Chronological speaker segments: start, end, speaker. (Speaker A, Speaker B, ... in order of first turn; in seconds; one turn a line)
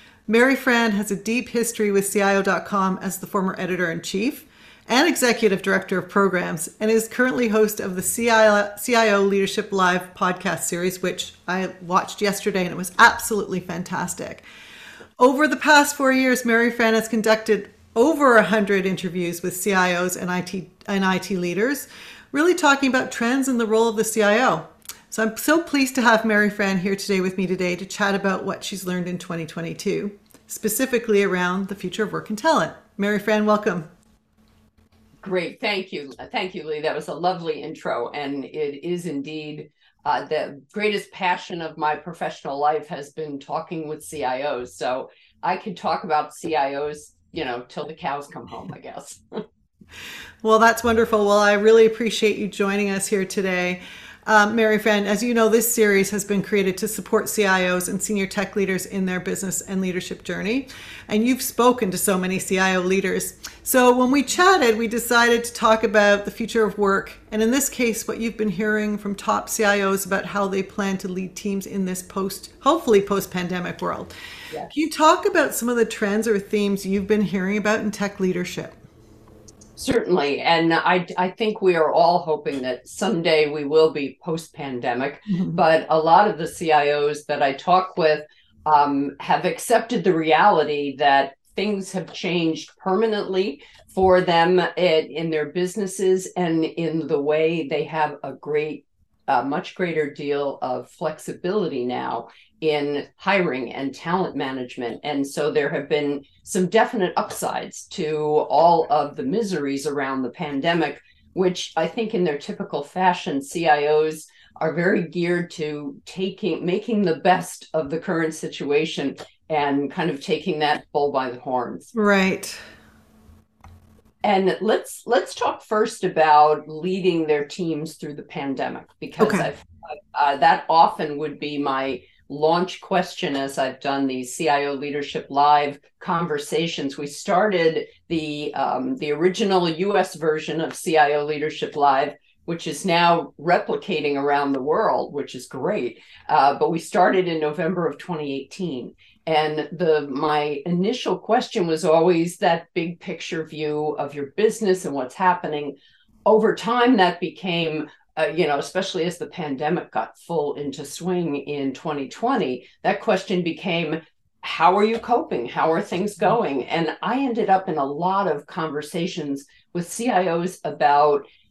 Speaker A: 0.3-14.4
Speaker A: 15.2-33.9
Speaker B: 35.2-49.4
Speaker A: 50.4-74.1
Speaker A: 74.7-78.7
Speaker B: 79.8-121.9
Speaker A: 85.3-85.6
Speaker A: 121.9-122.6
Speaker B: 124.2-171.2
Speaker A: 129.2-129.5